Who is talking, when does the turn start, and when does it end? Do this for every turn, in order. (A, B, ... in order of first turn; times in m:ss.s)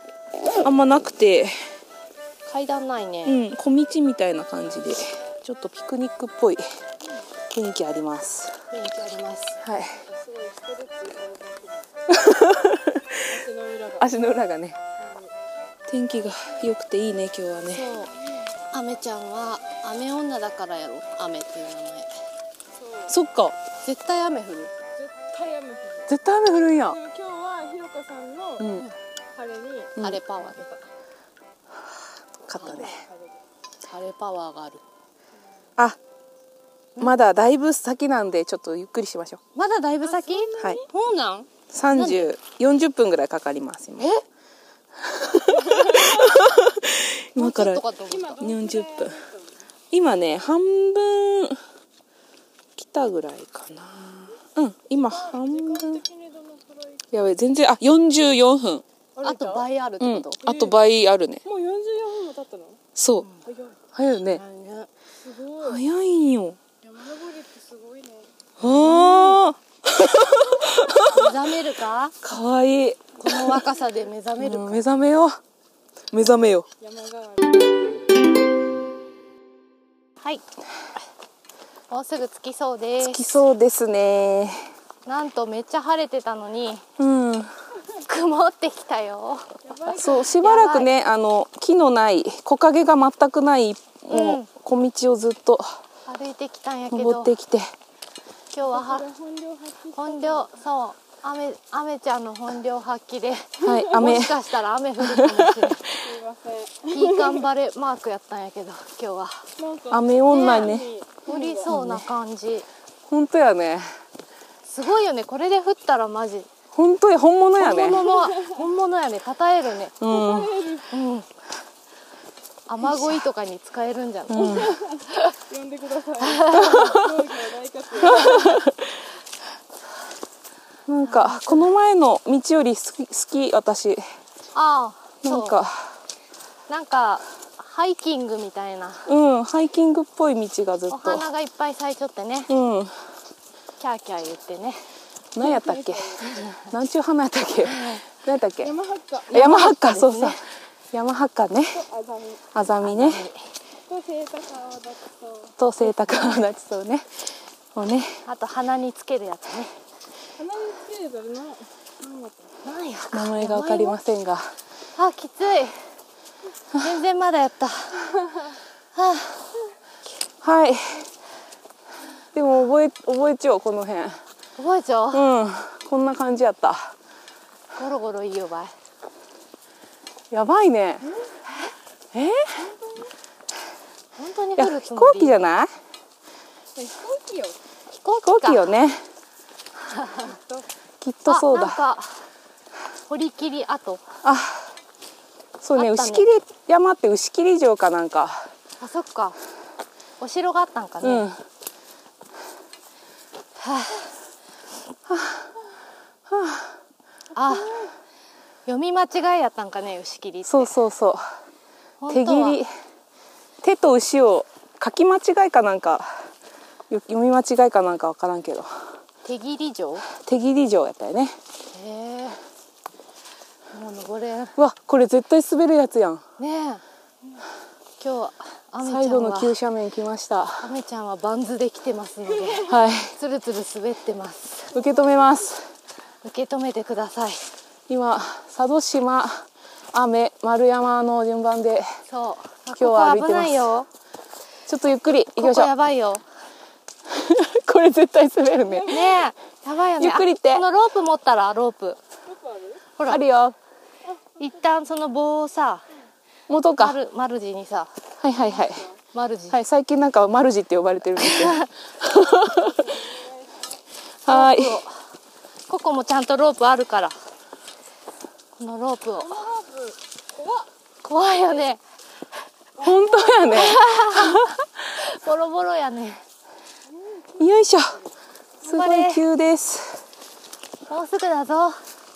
0:00.6-0:01.6 A
0:02.4-0:03.4 B
0:03.3-0:06.6 A
0:07.5-0:08.5 A
0:08.7-0:09.6 B
0:09.6-0:10.0 A
0:10.1-0:11.9 C
0:12.1-0:13.2 A
0:13.3-0:14.0 C
0:14.0-0:14.8 A
0:15.9-0:17.9 A
0:17.7-0:18.1 B
0:18.7-0:22.1 B
0:23.1-0:23.6 A
0:23.8-0:24.7 B
0:25.1-0:26.0 C
0:26.1-0:27.0 A
0:27.0-0:28.7 C
0:28.6-0:28.9 A
0:28.6-0:29.0 B
0:29.3-0:30.0 C
0:30.0-0:30.8 B
0:32.5-0:33.0 A
0:32.6-0:32.9 B
0:33.9-0:34.8 B
0:37.0-0:39.4 A
0:39.6-0:42.3 B
0:40.2-0:40.7 C
0:41.7-0:44.2 A
0:45.0-0:47.8 A
0:47.4-0:48.5 B
0:48.3-0:49.4 C
0:48.4-0:49.2 A
0:49.9-0:51.6 A
0:52.8-0:56.0 A
0:55.3-0:57.0 C
0:57.1-0:58.8 A
0:59.2-0:59.6 C
0:59.2-1:00.4 B
1:00.0-1:01.4 A
1:00.4-1:00.7 C
1:01.5-1:02.8 C
1:03.0-1:03.3 A
1:03.5-1:03.8 C
1:04.0-1:04.4 A
1:04.3-1:04.9 B
1:05.2-1:05.8 C
1:05.6-1:06.6 A
1:06.8-1:08.3 C
1:08.6-1:11.4 A
1:08.7-1:09.4 B
1:11.0-1:12.2 B
1:12.2-1:13.6 A
1:13.2-1:14.9 B
1:14.4-1:15.4 A
1:16.1-1:16.7 A
1:16.8-1:17.7 C
1:21.9-1:23.4 B
1:23.0-1:24.6 A
1:25.1-1:26.8 B
1:27.0-1:27.5 A
1:27.9-1:30.9 B
1:29.7-1:30.1 C
1:29.9-1:35.8 A
1:34.1-1:34.5 B
1:36.1-1:37.3 B
1:36.9-1:37.7 A
1:38.5-1:39.1 B
1:38.8-1:40.5 C
1:39.9-1:46.0 B
1:43.6-1:44.4 A
1:45.0-1:45.7 A
1:46.0-1:47.1 C
1:46.9-1:49.5 B
1:49.6-1:51.6 C
1:49.9-1:50.9 A
1:51.3-1:52.7 B
1:51.7-1:52.0 A
1:53.1-1:53.9 A
1:54.7-1:56.5 B
1:56.7-1:58.2 A
1:57.6-2:00.0 B
2:00.0-2:00.7 A
2:00.2-2:00.8 C
2:00.8-2:01.3 B
2:02.7-2:04.7 B
2:04.3-2:04.8 A
2:04.5-2:08.5 C
2:06.2-2:06.9 B
2:06.5-2:07.3 A
2:08.0-2:08.9 A
2:10.9-2:14.0 A
2:11.0-2:11.7 B
2:14.5-2:15.6 B
2:15.2-2:16.0 A
2:16.7-2:19.1 B
2:19.1-2:21.3 A
2:20.9-2:22.5 B
2:22.5-2:22.9 A
2:23.8-2:24.9 B
2:25.4-2:28.8 A
2:25.6-2:26.0 C
2:27.7-2:28.0 B
2:28.6-2:29.3 C
2:29.3-2:30.4 A
2:29.3-2:30.4 B
2:30.9-2:31.9 A
2:31.9-2:32.4 C
2:32.5-2:33.2 A
2:32.8-2:33.5 B
2:33.9-2:35.5 C
2:35.6-2:37.1 A
2:37.8-2:38.2 A
2:38.3-2:39.7 B
2:40.4-2:42.5 C
2:42.6-2:44.0 B
2:43.1-2:44.5 A
2:45.0-2:45.8 B
2:46.8-2:48.2 B
2:48.9-2:49.6 B
2:50.4-2:51.1 A
2:52.3-2:54.2 A
2:54.6-2:55.2 B
2:55.1-2:57.0 A
2:57.8-2:58.7 B
3:00.3-3:01.1 A
3:02.1-3:02.7 A
3:04.2-3:05.4 B
3:04.6-3:05.7 A
3:06.8-3:07.6 C
3:07.9-3:08.7 B
3:08.2-3:09.0 A
3:09.9-3:10.4 B
3:11.0-3:11.8 A
3:11.3-3:12.2 B
3:13.1-3:14.0 B
3:14.2-3:14.7 A
3:15.6-3:18.5 A
3:15.8-3:16.3 B
3:18.8-3:19.4 B
3:20.2-3:21.3 B
3:21.0-3:21.4 A
3:23.6-3:24.1 B
3:25.1-3:25.5 A
3:26.3-3:26.7 A
3:27.3-3:27.8 B
3:28.7-3:30.8 B
3:30.5-3:31.2 A
3:32.0-3:32.6 B
3:32.1-3:32.7 A
3:33.6-3:36.2 A
3:36.9-3:38.7 A
3:39.2-3:40.0 B
3:40.2-3:41.4 A
3:41.7-3:42.4 B
3:43.7-3:44.6 B
3:44.6-3:46.2 A
3:46.4-3:46.8 B
3:48.0-3:49.6 B
3:48.8-3:50.7 A
3:50.6-3:54.8 B
3:52.7-3:53.1 A
3:54.7-3:55.7 A
3:56.2-3:57.5 B
3:57.9-4:01.9 A
4:02.1-4:03.9 B
4:02.7-4:03.7 A
4:04.7-4:05.7 A
4:05.4-4:06.2 B
4:07.1-4:09.2 A
4:08.9-4:12.0 B
4:10.0-4:10.6 A
4:13.0-4:13.2 B
4:13.1-4:13.6 A
4:14.4-4:15.8 B
4:16.5-4:17.0 A
4:16.8-4:17.9 B
4:18.2-4:18.9 A
4:19.1-4:19.6 B
4:19.5-4:23.0 A
4:21.2-4:21.7 B
4:23.0-4:23.4 C
4:24.2-4:24.8 A
4:24.3-4:25.0 B
4:25.7-4:27.2 B
4:28.6-4:29.5 B
4:29.4-4:30.0 C
4:31.0-4:31.8 B
4:32.8-4:34.6 A
4:33.4-4:34.4 B
4:35.0-4:36.2 B
4:37.4-4:38.0 A
4:38.6-4:40.0 A
4:38.6-4:39.2 B
4:40.9-4:41.8 B